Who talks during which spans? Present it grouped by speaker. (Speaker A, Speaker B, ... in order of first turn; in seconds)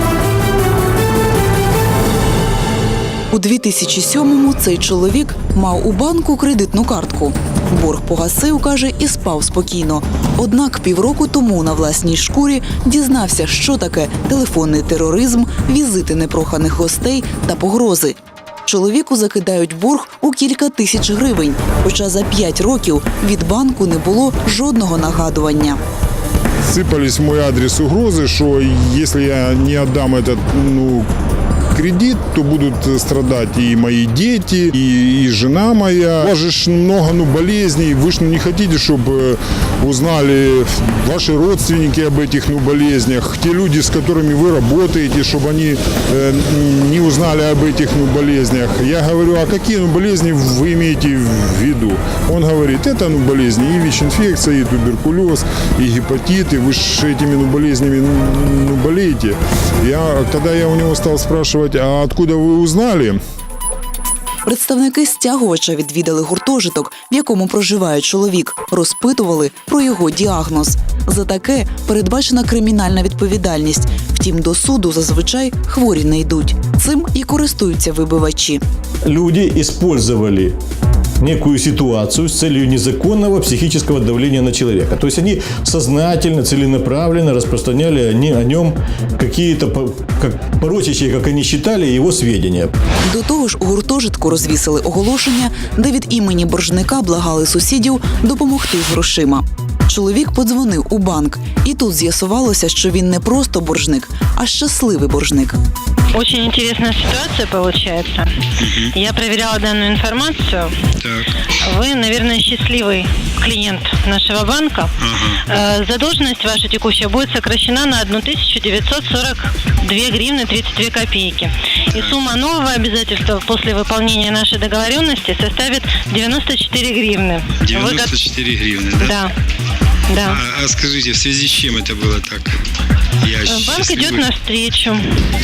Speaker A: 3.3-25.8, 64.5-78.6, 93.0-105.6
Speaker B: 26.7-31.1, 31.8-63.2
Speaker C: 79.0-80.6, 81.2-92.7
Speaker D: 106.1-108.3, 108.9-110.8, 111.7-114.9, 115.5-128.1, 129.0-129.3, 130.1-130.4, 133.5-135.2
Speaker E: 108.6-108.9, 115.0-115.4, 127.6-129.2, 130.3-132.5, 133.2-134.2